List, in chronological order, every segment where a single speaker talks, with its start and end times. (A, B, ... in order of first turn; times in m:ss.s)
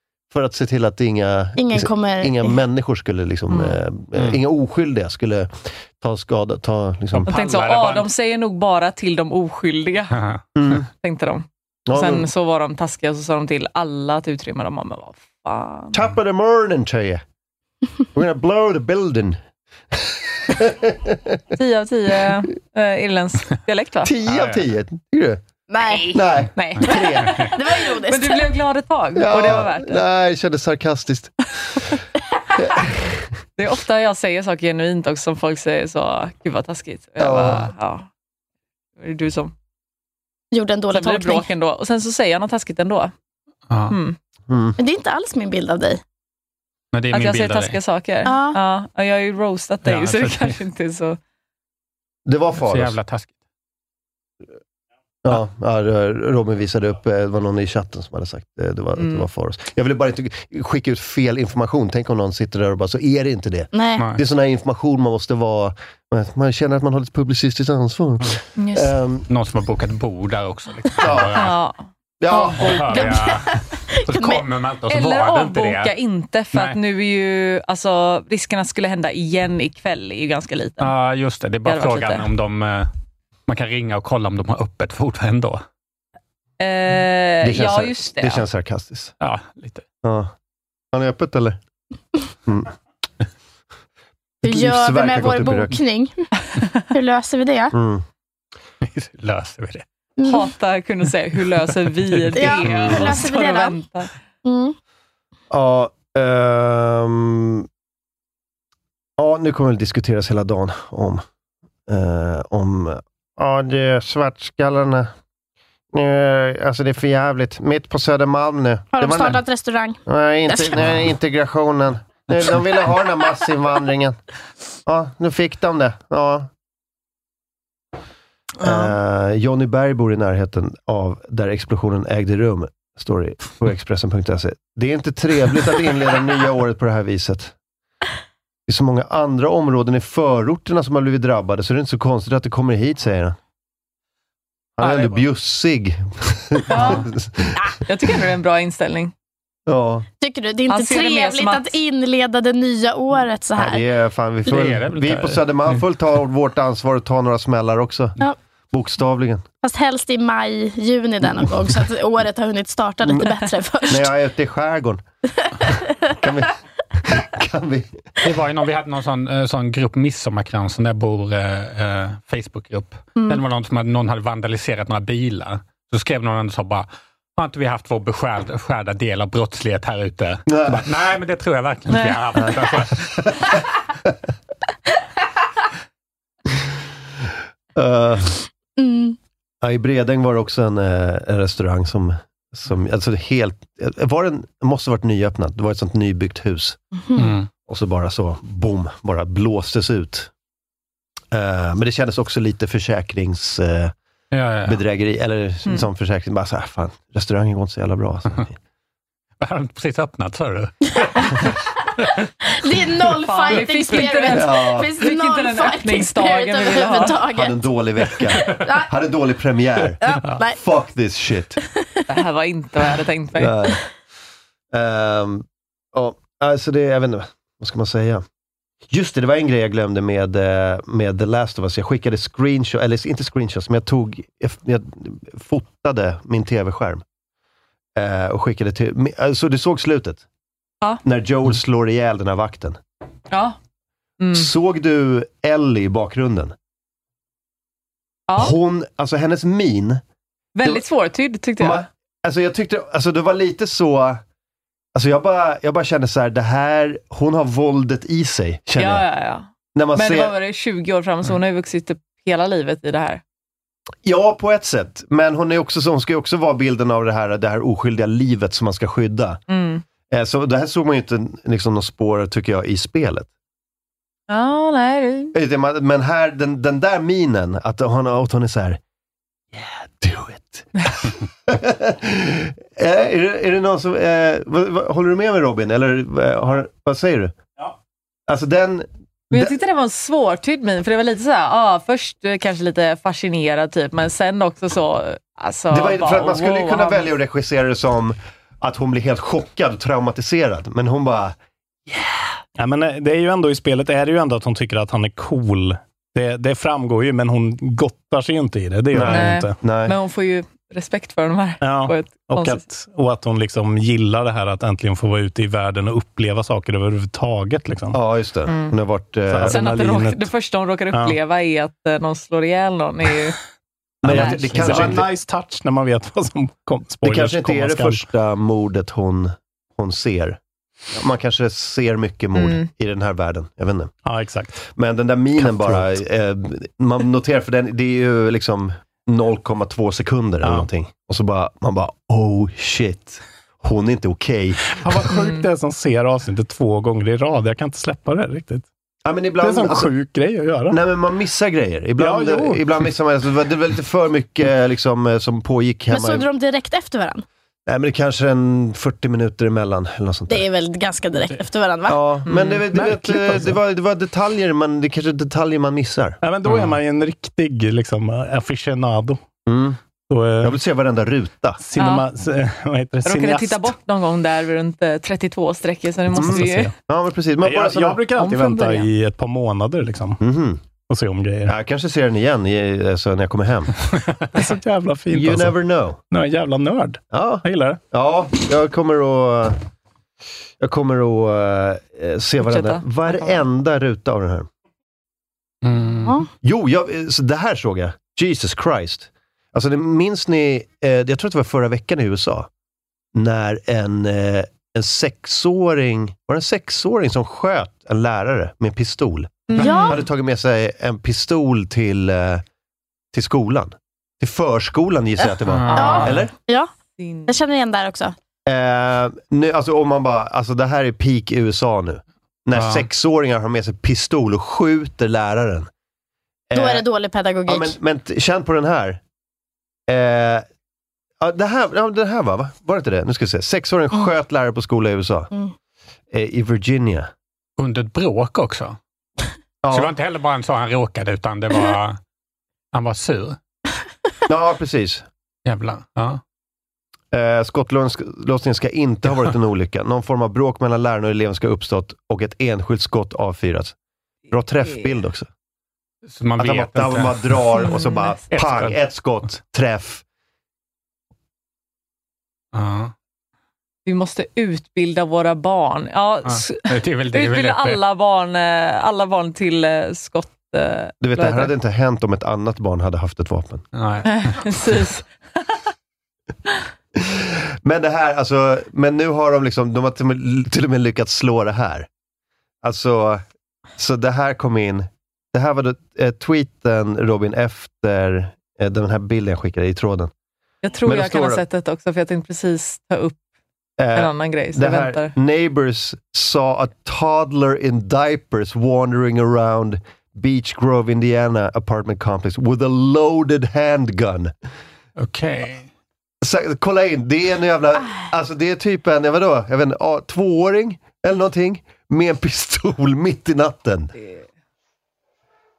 0:00.3-0:07.5 A
0:01.6-0:02.5 B
0:07.2-0:08.1 C
0:07.2-0:10.2 D
0:10.1-0:10.4 C
0:10.6-0:10.9 A
0:11.0-0:16.0 D
0:11.9-0:12.3 A
0:15.9-0:17.2 A
0:18.1-0:19.4 A
0:19.9-0:21.4 A
0:21.5-0:24.1 D
0:24.0-0:25.4 A
0:24.3-0:24.6 C
0:25.7-0:26.2 B
0:25.8-0:30.0 D
0:26.1-0:27.5 A
0:27.5-0:28.5 B
0:29.1-0:31.5 A
0:32.8-0:33.0 A
0:33.6-0:38.1 D
0:37.2-0:37.7 A
0:39.0-0:39.5 D
0:40.5-0:41.5 B
0:40.9-0:43.1 D
0:43.7-0:44.0 C
0:43.9-0:44.2 D
0:44.5-0:44.8 A
0:44.8-0:46.0 B
0:46.9-0:47.8 C
0:47.1-0:51.2 D
0:48.3-0:48.6 B
0:49.8-0:50.6 C
0:52.3-0:53.0 A
0:52.6-0:53.4 C
0:55.2-1:09.3 A
0:59.0-0:59.3 D
1:03.7-1:04.1 B
1:08.6-1:08.9 D
1:09.3-1:11.6 C
1:11.0-1:11.4 A
1:11.4-1:13.3 D
1:12.2-1:13.1 A
1:12.6-1:15.9 C
1:12.9-1:14.4 B
1:14.9-1:20.9 D
1:16.5-1:16.8 C
1:20.8-1:22.9 C
1:21.6-1:22.3 D
1:23.5-1:25.6 C
1:26.6-1:28.4 D
1:27.4-1:29.1 A
1:29.2-1:29.8 C
1:30.0-1:30.3 A
1:30.9-1:31.6 A
1:32.5-1:32.7 A
1:34.4-1:35.8 A
1:34.4-1:36.2 B
1:36.9-1:37.8 B
1:37.7-1:38.0 A
1:38.8-1:39.8 C
1:40.2-1:40.5 B
1:40.2-1:44.1 D
1:42.1-1:43.0 C
1:42.4-1:43.8 B
1:44.4-1:44.8 B
1:45.5-1:47.7 A
1:49.2-1:51.2 A
1:51.9-1:55.1 A
1:55.9-1:59.4 A
1:59.0-2:01.0 B
2:00.1-2:04.2 A
2:04.9-2:06.5 A
2:08.6-2:17.5 A
2:08.6-2:08.9 B
2:18.7-2:23.4 A
2:24.8-2:27.8 A
2:26.7-2:27.1 D
2:27.7-2:29.1 D
2:29.7-2:30.1 A
2:30.2-2:33.8 B
2:30.7-2:31.8 D
2:33.6-2:38.2 A
2:34.5-2:35.4 C
2:38.7-2:39.4 A
2:39.6-2:44.1 B
2:43.0-2:43.4 A
2:43.9-2:45.0 A
2:45.6-2:45.9 B
2:46.2-2:46.5 A
2:47.0-2:48.0 A
2:48.2-3:03.6 C
2:53.2-2:53.4 B
3:00.5-3:00.9 A
3:01.9-3:02.2 D
3:02.4-3:03.5 A
3:07.8-3:08.4 A
3:08.8-3:09.2 B
3:09.6-3:16.8 A
3:17.1-3:17.4 B
3:17.2-3:17.5 C
3:17.7-3:20.3 A
3:21.3-3:23.9 A
3:24.3-3:24.8 C
3:24.6-3:28.6 A
3:29.4-3:31.5 C
3:32.6-3:38.9 B
3:33.2-3:37.3 D
3:34.3-3:35.0 A
3:37.3-3:41.6 A
3:40.0-3:40.6 B
3:42.1-3:43.8 D
3:43.4-3:43.8 A
3:44.7-3:48.2 A
3:48.9-3:57.0 A
3:58.0-4:00.2 A
4:01.0-4:02.8 A
4:03.3-4:03.6 D
4:04.2-4:04.5 D
4:04.3-4:06.6 A
4:08.3-4:08.6 D
4:08.4-4:10.0 A
4:10.6-4:11.9 D
4:11.6-4:14.2 A
4:15.0-4:19.1 A
4:18.8-4:23.2 D
4:19.7-4:20.4 A
4:24.0-4:29.4 A
4:29.5-4:29.8 D
4:30.1-4:33.3 A
4:34.3-4:35.3 D
4:35.3-4:38.8 A
4:39.5-4:47.4 A
4:48.3-4:49.6 A
4:49.3-4:57.1 D
4:55.7-5:02.4 A
5:02.6-5:09.6 E
5:08.9-5:10.0 A
5:09.0-5:12.6 D
5:11.6-5:18.0 E
5:17.9-5:19.7 A
5:18.5-5:18.8 D
5:19.3-5:20.3 E
5:19.5-5:23.4 D
5:24.0-5:25.1 A
5:24.0-5:28.0 E
5:24.1-5:25.0 D
5:27.0-5:30.4 A
5:30.9-5:33.9 A
5:32.4-5:32.7 D
5:34.1-5:34.6 E
5:34.7-5:44.6 A
5:35.4-5:35.9 E
5:40.4-5:40.7 E
5:44.7-5:48.7 E
5:45.2-5:45.4 D
5:49.0-5:49.9 A
5:49.4-5:50.8 E
5:50.7-5:56.3 A
5:52.0-5:52.8 E
5:55.9-5:57.2 B
5:57.7-6:00.4 A
6:00.3-6:02.1 B
6:01.9-6:06.2 A
6:02.3-6:02.6 D
6:02.7-6:03.6 E
6:06.2-6:09.2 E
6:06.5-6:06.7 C
6:09.5-6:09.8 A
6:10.1-6:10.6 E
6:10.4-6:11.6 A
6:11.6-6:13.8 E
6:11.8-6:12.1 D
6:13.0-6:16.7 D
6:16.1-6:16.7 E
6:16.2-6:18.0 A
6:17.4-6:20.2 E
6:18.1-6:18.9 D
6:20.2-6:20.6 A
6:20.9-6:21.5 E
6:21.5-6:23.7 A
6:24.3-6:25.6 E
6:25.1-6:26.0 A
6:26.1-6:27.8 E
6:27.1-6:29.6 A
6:30.6-6:34.5 A
6:32.4-6:33.4 D
6:35.6-6:36.2 C
6:36.4-6:42.5 A
6:43.1-6:52.4 A
6:49.5-6:50.0 D
6:49.6-6:50.0 B
6:53.1-6:56.3 A
6:55.5-6:56.2 C
6:55.7-6:56.2 D
6:55.8-6:56.7 B
6:57.0-6:57.4 D
6:57.3-6:58.2 B
6:58.5-7:05.7 A
7:02.5-7:02.9 C
7:06.5-7:06.8 A
7:06.6-7:07.8 B
7:07.5-7:09.0 A
7:09.9-7:10.4 A
7:11.2-7:15.3 A
7:16.1-7:17.1 A
7:17.6-7:18.8 C
7:19.6-7:19.9 A
7:19.7-7:22.0 C
7:22.7-7:23.4 C
7:24.3-7:25.0 A
7:25.4-7:26.2 C
7:27.1-7:33.8 A
7:34.3-7:35.3 A
7:36.1-7:37.5 C
7:36.4-7:40.0 A
7:37.5-7:38.2 D
7:38.3-7:38.8 C
7:42.5-7:42.9 C
7:43.9-7:51.5 D
7:46.3-7:47.8 C
7:51.0-7:53.6 A
7:53.7-7:54.5 C
7:54.0-7:55.1 D
7:57.0-8:01.9 A
8:02.6-8:03.2 A
8:03.8-8:10.1 A
8:10.6-8:13.2 D
8:10.8-8:11.4 A
8:13.8-8:24.3 A
8:13.9-8:15.1 D
8:25.0-8:25.7 C
8:26.2-8:33.9 A